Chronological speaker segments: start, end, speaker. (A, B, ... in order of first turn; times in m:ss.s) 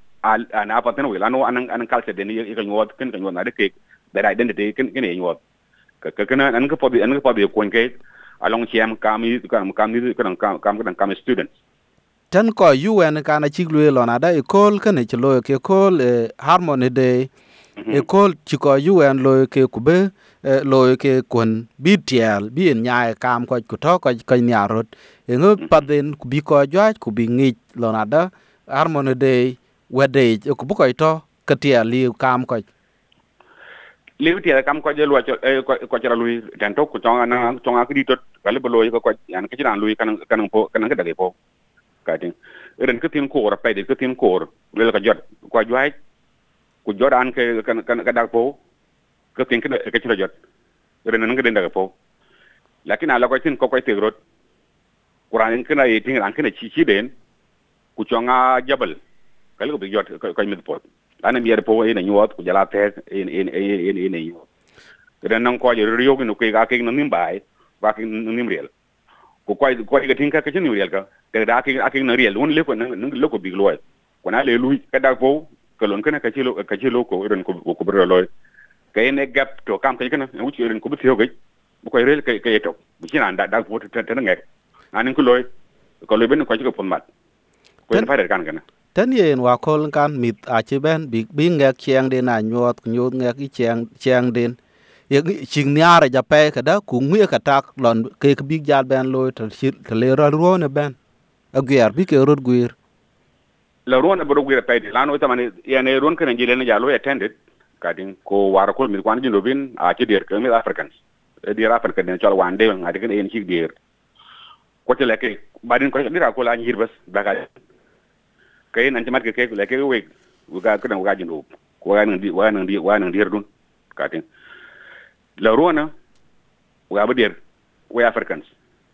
0:00.2-0:05.4 A
0:06.0-0:11.5 A
0:12.3-0:17.3 B
0:17.8-0:18.0 A
0:17.9-0:32.7 B
0:34.2-0:41.3 A
0:42.0-0:45.9 A
0:46.8-0:48.6 A
0:49.4-0:50.3 A
0:51.0-0:51.9 A
0:52.8-0:54.2 A
0:55.3-0:57.1 A
0:58.0-0:59.0 A
0:59.6-1:04.5 A
1:05.2-1:08.7 A
1:09.5-1:18.3 A
1:18.9-1:21.3 A
1:21.8-1:24.4 A
1:24.9-1:25.5 A
1:26.0-1:27.1 A
1:27.9-1:28.6 A
1:29.0-1:34.6 B
1:35.1-1:41.0 B
1:41.6-1:42.7 B
1:43.9-1:53.7 A
1:54.9-1:57.5 A
1:58.7-2:04.2 A
2:05.4-2:05.9 A
2:06.9-2:07.4 A
2:07.9-2:08.5 A